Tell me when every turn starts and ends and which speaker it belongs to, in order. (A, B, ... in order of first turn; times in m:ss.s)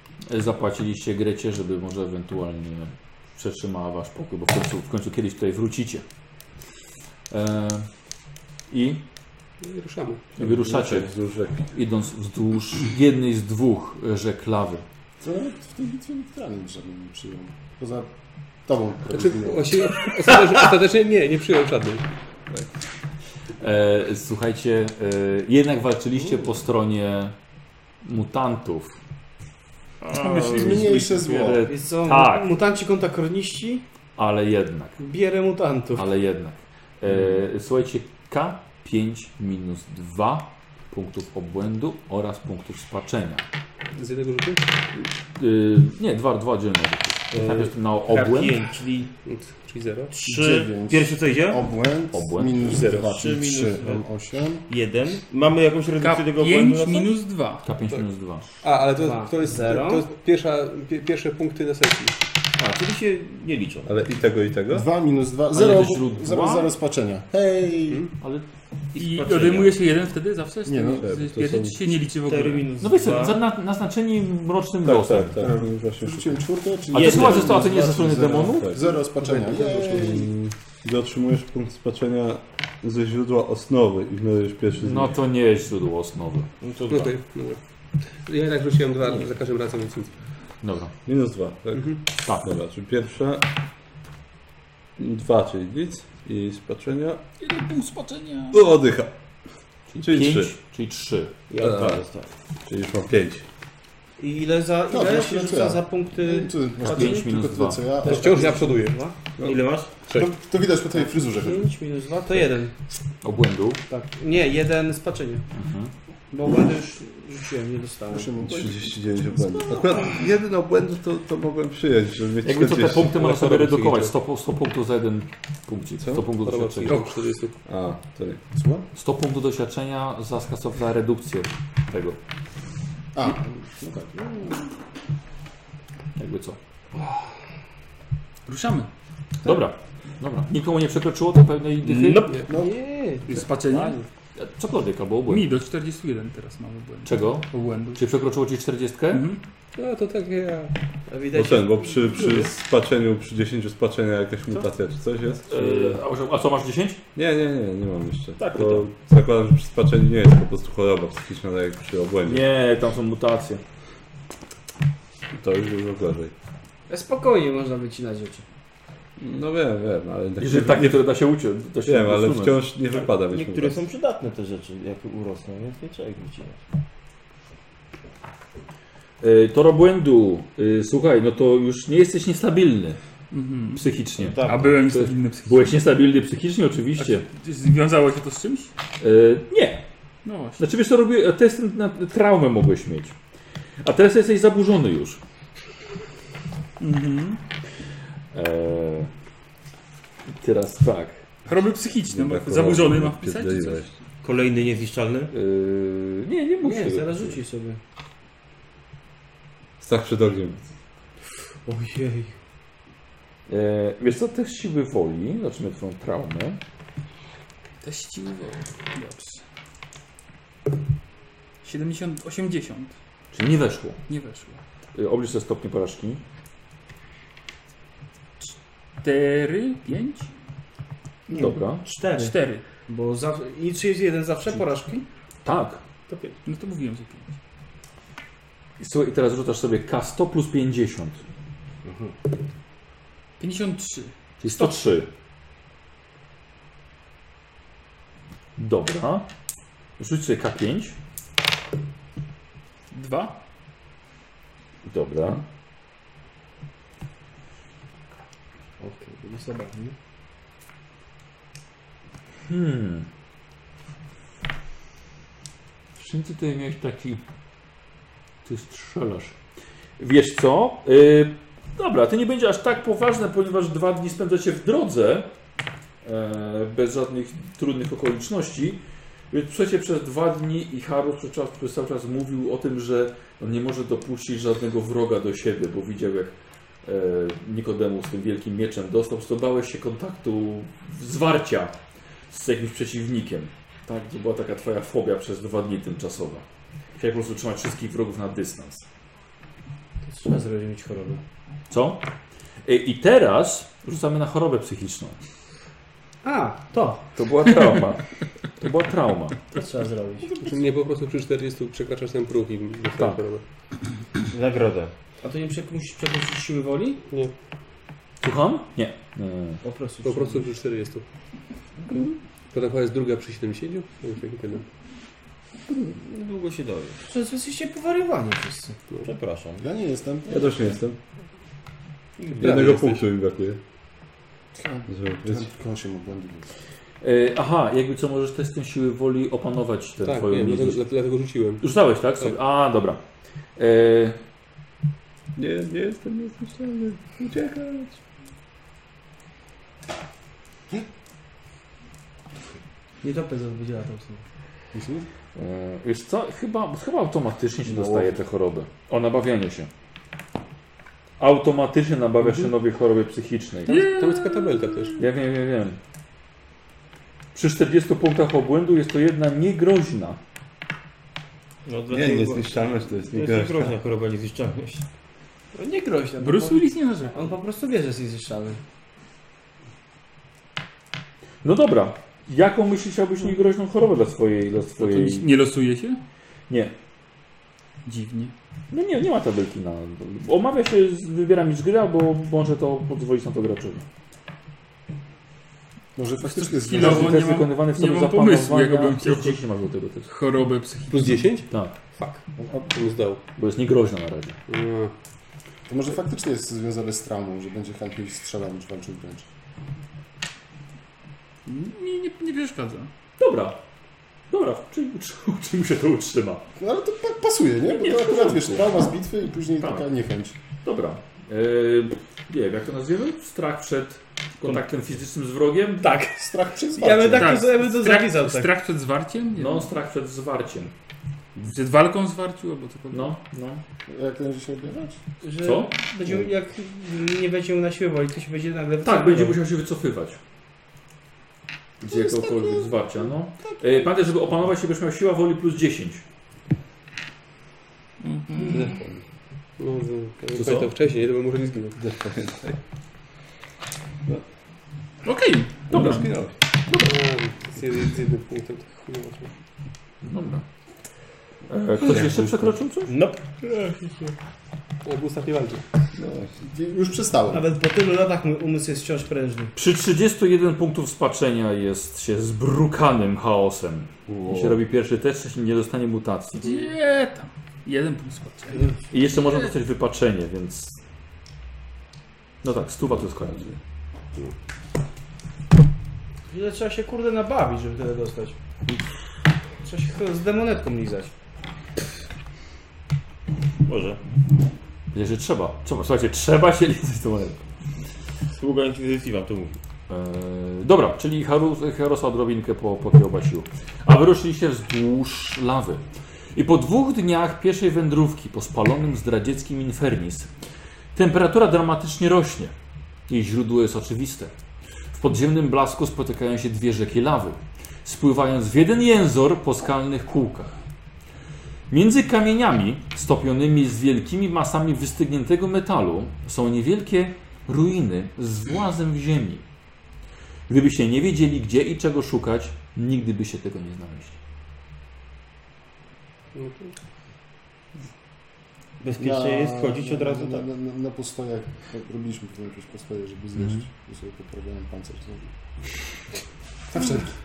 0:00.3-0:06.0 A
0:07.3-0:07.9 A
0:08.7-0:09.0 A
0:09.6-0:10.3 B
0:10.4-0:11.7 C
0:10.4-0:11.1 A
0:11.7-0:14.8 A
0:15.2-0:18.1 D
0:18.6-0:19.8 D
0:19.1-0:22.0 B
0:23.6-0:27.3 A
0:28.0-0:29.0 A
0:30.1-0:30.9 E
0:30.1-0:32.5 A
0:30.2-0:31.6 D
0:31.7-0:33.8 F
0:34.2-0:35.0 A
0:35.0-0:36.0 F
0:35.9-0:43.4 A
0:43.9-0:44.7 B
0:44.9-0:48.6 A
0:47.3-0:49.1 G
0:49.2-0:50.1 B
0:50.1-0:51.6 G
0:50.2-0:54.6 D
0:52.1-0:53.0 A
0:52.9-0:54.0 G
0:54.7-0:57.1 G
0:56.0-0:57.7 E
0:57.6-0:58.4 A
0:58.6-1:02.2 B
0:59.0-1:00.0 F
1:02.6-1:03.9 G
1:03.8-1:04.9 C
1:04.7-1:08.0 D
1:05.5-1:06.7 A
1:08.2-1:08.5 A
1:08.9-1:09.8 G
1:09.0-1:12.7 E
1:10.6-1:11.1 D
1:11.0-1:11.8 C
1:12.2-1:13.4 G
1:12.8-1:15.3 A
1:14.8-1:16.4 C
1:15.4-1:20.3 D
1:16.9-1:18.7 A
1:16.9-1:17.7 G
1:18.4-1:18.8 C
1:19.3-1:20.2 F
1:19.9-1:25.2 C
1:24.8-1:26.5 A
1:26.6-1:27.2 G
1:26.9-1:30.2 B
1:30.6-1:31.0 A
1:31.0-1:33.4 C
1:31.8-1:32.0 B
1:32.1-1:32.4 A
1:35.0-1:37.2 C
1:37.4-1:38.6 E
1:38.5-1:39.1 C
1:39.9-1:41.4 A
1:40.0-1:40.6 C
1:41.5-1:42.3 G
1:41.6-1:42.0 C
1:42.7-1:43.4 C
1:44.2-1:47.2 F
1:44.9-1:48.6 D
1:46.8-1:48.0 A
1:48.0-1:49.1 F
1:48.0-1:49.0 B
1:49.4-1:49.9 G
1:50.1-1:51.7 D
1:51.0-1:52.7 F
1:53.2-1:53.8 A
1:53.9-1:55.4 F
1:55.5-1:55.9 A
1:56.3-1:58.3 F
1:58.1-2:00.1 D
1:58.4-2:03.1 C
2:02.4-2:07.1 A
2:03.1-2:04.1 B
2:06.0-2:06.3 C
2:06.4-2:07.6 B
2:07.6-2:08.4 C
2:08.5-2:08.9 D
2:08.9-2:12.2 A
2:13.1-2:14.6 D
2:16.2-2:16.6 A
2:18.4-2:18.9 E
2:19.4-2:22.3 A
2:21.8-2:22.4 G
2:22.5-2:22.7 D
2:22.5-2:23.4 F
2:23.3-2:24.0 E
2:24.4-2:25.5 A
2:25.3-2:28.0 E
2:27.0-2:29.3 A
2:29.1-2:29.4 E
2:29.7-2:30.7 B
2:31.1-2:32.4 F
2:31.3-2:36.0 C
2:35.5-2:37.0 A
2:37.1-2:42.5 C
2:38.4-2:38.9 A
2:42.2-2:43.6 A
2:45.3-2:46.3 C
2:46.9-2:48.4 F
2:49.2-2:51.2 C
2:50.4-2:52.6 A
2:51.8-2:53.8 C
2:52.9-2:56.6 G
2:59.2-3:03.0 A
3:03.3-3:03.8 E
3:03.7-3:07.2 A
3:04.2-3:04.8 G
3:04.4-3:05.7 E
3:07.0-3:08.7 E
3:09.0-3:09.8 A
3:10.2-3:10.6 E
3:10.6-3:13.1 A
3:13.8-3:15.2 A
3:16.8-3:17.4 E
3:18.3-3:19.1 A
3:20.3-3:21.2 A
3:21.4-3:23.9 E
3:22.1-3:23.9 C
3:24.2-3:25.3 G
3:25.3-3:27.4 A
3:26.6-3:27.8 F
3:29.8-3:30.6 C
3:31.6-3:32.3 F
3:33.5-3:36.6 A
3:37.8-3:39.4 E
3:41.6-3:43.0 E
3:43.3-3:44.0 A
3:44.1-3:44.6 E
3:44.9-3:46.2 A
3:48.4-3:50.3 E
3:51.3-3:52.3 F
3:51.3-3:51.9 A
3:52.0-3:52.6 E
3:52.8-3:55.0 F
3:55.4-3:55.8 A
3:56.1-3:56.4 B
3:56.4-3:57.3 E
3:58.8-4:01.2 A
4:01.8-4:02.2 F
4:03.4-4:04.1 E
4:04.4-4:05.1 A
4:08.6-4:09.3 A
4:10.0-4:11.0 A
4:12.9-4:13.4 E
4:14.8-4:15.4 A
4:18.8-4:19.9 F
4:22.5-4:23.1 A
4:26.0-4:27.2 A
4:28.4-4:29.4 A
4:30.0-4:35.3 A
4:36.0-4:51.8 A
4:52.3-4:56.4 A
4:57.0-4:58.8 A
5:00.0-5:01.2 F
5:01.7-5:02.0 A
5:02.6-5:05.2 A
5:06.2-5:07.0 F
5:07.2-5:08.0 A
5:08.6-5:09.4 A
5:09.5-5:10.4 F
5:10.3-5:13.4 B
5:14.3-5:14.9 G
5:15.2-5:17.0 F
5:18.2-5:19.6 A
5:19.6-5:20.5 F
5:20.0-5:21.0 B
5:22.5-5:24.6 B
5:25.8-5:27.0 G
5:27.1-5:28.8 F
5:29.0-5:29.6 G
5:29.6-5:30.8 D
5:30.3-5:31.0 C
5:32.4-5:33.6 C
5:32.4-5:33.0 B
5:34.6-5:36.5 D
5:34.9-5:35.5 C
5:37.0-5:40.8 A
5:40.0-5:42.4 B
5:41.6-5:43.0 A
5:43.6-5:44.2 A
5:45.4-5:48.0 C
5:53.0-5:54.2 F
5:54.7-5:55.1 D
5:55.3-5:59.7 A
5:57.7-5:58.1 C
6:01.2-6:03.8 A
6:02.2-6:02.5 B
6:03.7-6:05.0 B
6:03.7-6:05.0 E
6:05.0-6:05.8 A
6:07.3-6:10.2 A
6:11.6-6:14.8 G
6:11.9-6:13.7 C
6:15.5-6:18.6 F
6:16.2-6:17.3 E
6:21.4-6:25.3 A
6:24.8-6:26.0 E
6:26.5-6:26.7 A
6:27.8-6:28.3 E
6:28.7-6:33.8 A
6:36.0-6:37.2 D
6:36.4-6:39.4 E
6:36.7-6:40.1 A
6:40.1-6:41.3 E
6:40.9-6:43.2 B
6:41.5-6:41.7 A
6:42.4-6:42.7 D
6:43.4-6:44.4 A
6:44.5-6:44.9 B
6:45.7-6:49.3 D
6:51.7-6:52.9 E
6:53.2-6:53.6 A
6:54.3-6:56.4 A
6:56.6-7:00.4 D
6:57.8-6:58.6 A
6:59.6-6:59.8 A
7:00.6-7:06.0 A
7:05.8-7:06.1 F
7:06.2-7:07.4 D
7:06.8-7:08.5 F
7:07.2-7:09.7 E
7:09.3-7:10.7 A
7:11.4-7:13.1 E
7:12.9-7:13.6 A
7:13.9-7:15.0 D
7:15.2-7:19.4 F
7:15.4-7:15.7 A
7:18.8-7:20.2 A
7:21.8-7:26.0 A
7:21.9-7:22.7 D
7:28.0-7:28.7 E
7:29.6-7:31.8 B
7:30.3-7:30.7 A
7:31.8-7:32.6 C
7:35.0-7:36.1 E
7:35.7-7:36.0 A
7:35.7-7:36.4 C
7:36.7-7:36.9 A
7:36.8-7:39.3 B
7:40.0-7:40.4 A
7:41.5-7:43.0 A
7:41.8-7:42.6 C
7:42.9-7:43.3 G
7:44.8-7:45.6 B
7:46.0-7:46.4 C
7:46.4-7:47.5 D
7:47.3-7:49.5 F
7:49.5-7:56.6 A
7:54.1-7:54.6 C
7:56.4-7:58.7 E
7:58.9-8:00.8 A
8:02.4-8:03.4 A
8:02.9-8:03.6 C
8:06.3-8:08.4 F
8:09.6-8:11.1 F
8:13.6-8:14.0 G
8:14.9-8:17.4 A
8:18.3-8:19.6 G
8:19.9-8:25.8 A
8:26.3-8:30.3 A
8:30.9-8:32.5 A
8:33.1-8:34.3 A
8:34.9-8:40.5 A
8:41.7-8:49.4 A
8:50.5-8:54.2 A
8:56.3-8:56.7 B
8:58.8-9:00.4 G
8:59.0-9:05.3 D
9:03.4-9:03.6 A
9:06.7-9:07.1 D